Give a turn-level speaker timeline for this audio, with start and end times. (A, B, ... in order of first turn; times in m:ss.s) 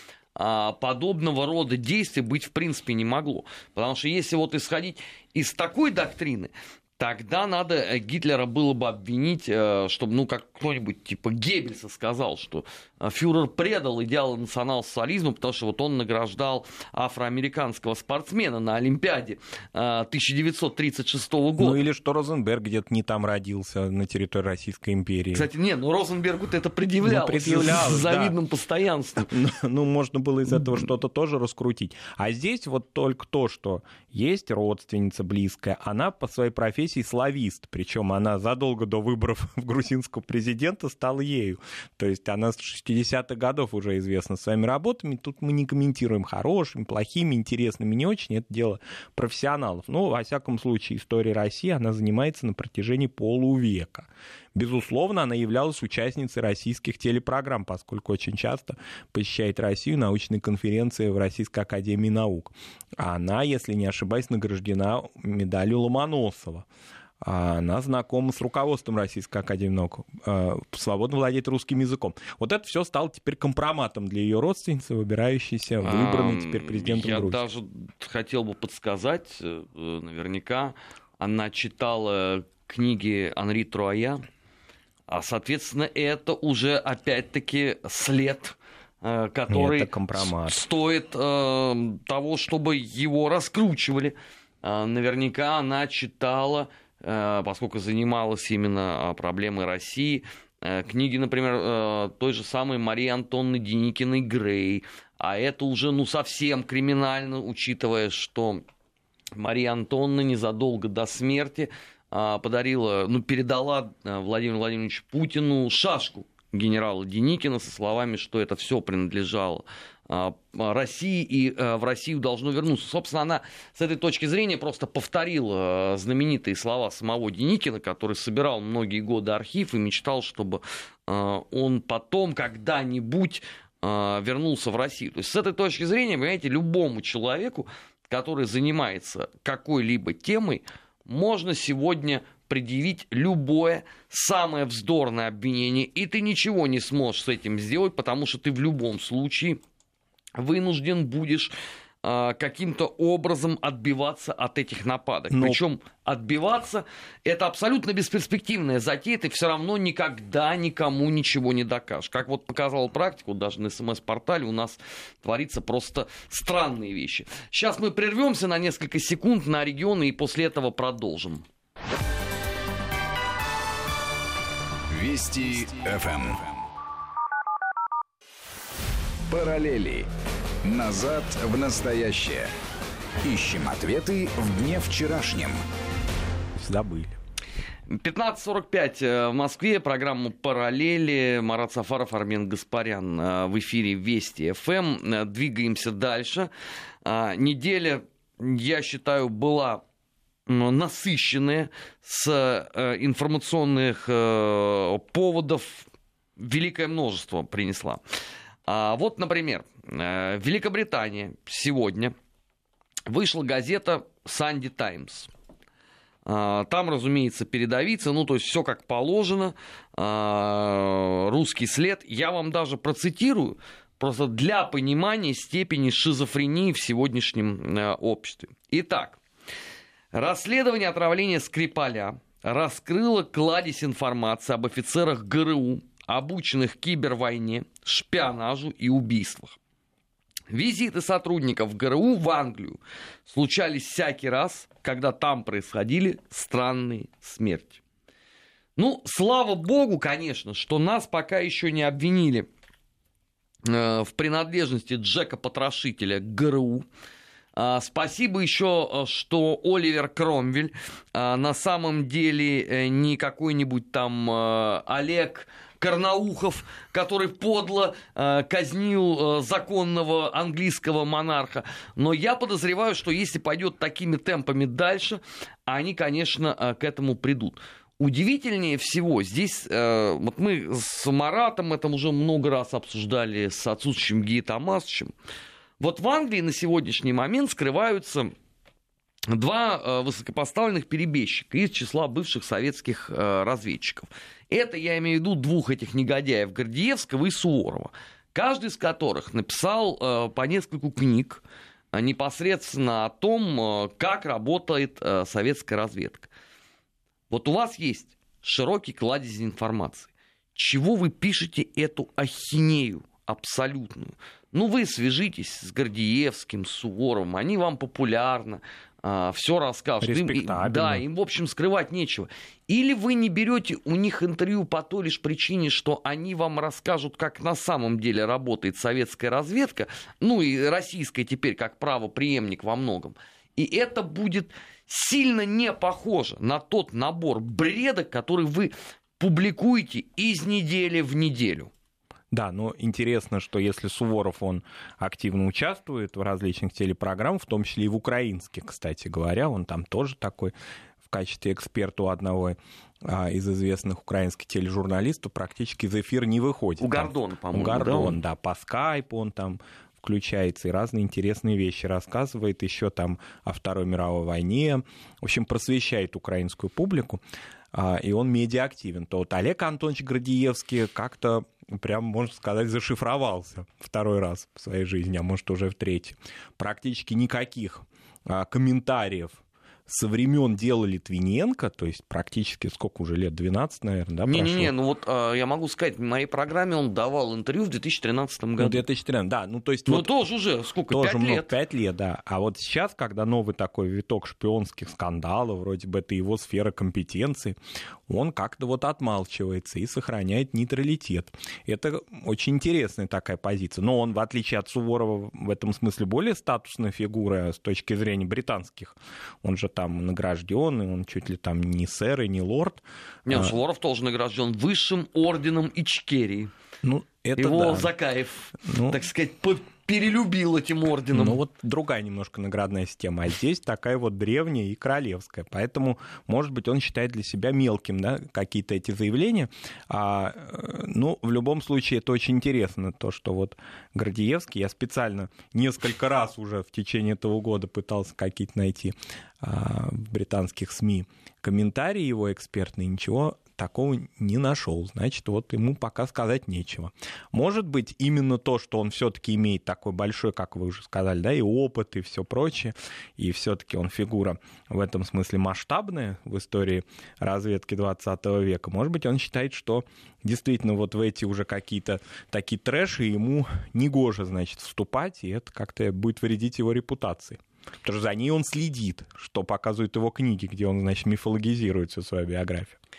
0:00.4-0:21.8 A
0:21.6-0:25.5 B
0:25.3-0:29.3 A
0:27.0-0:28.3 B
0:29.3-1:06.6 B
1:07.2-1:17.4 B
1:15.8-1:24.2 A
1:25.1-1:48.6 A
1:29.5-1:30.6 B
1:49.4-2:29.6 A
2:30.4-2:51.4 A
2:35.3-2:35.6 B
2:54.9-2:56.6 C
2:59.3-3:00.0 C
3:00.6-3:02.5 C
3:03.2-3:05.6 C
3:06.6-3:07.2 B
3:07.9-3:16.5 A
3:17.0-3:19.8 A
3:20.5-3:28.0 A
3:28.7-3:32.1 A
3:33.1-3:35.3 A
3:36.2-3:49.2 A
3:50.1-3:59.6 A
4:00.5-4:07.8 A
4:08.8-4:12.5 A
4:13.6-4:16.8 A
4:17.6-4:45.1 A
4:45.8-4:48.3 A
4:49.3-5:06.3 A
5:07.3-5:41.7 A
5:20.0-5:21.0 B
5:42.3-5:50.5 B
5:51.0-6:07.2 B
5:56.8-5:58.2 A
6:07.7-6:24.7 B
6:24.3-6:28.8 A
6:28.6-6:30.2 B
6:29.9-6:31.5 A
6:30.9-6:37.6 B
6:38.1-6:53.5 B
6:53.2-6:56.5 A
6:56.8-6:57.9 B
6:57.4-7:01.4 A
6:58.6-6:59.0 B
7:01.1-7:52.8 B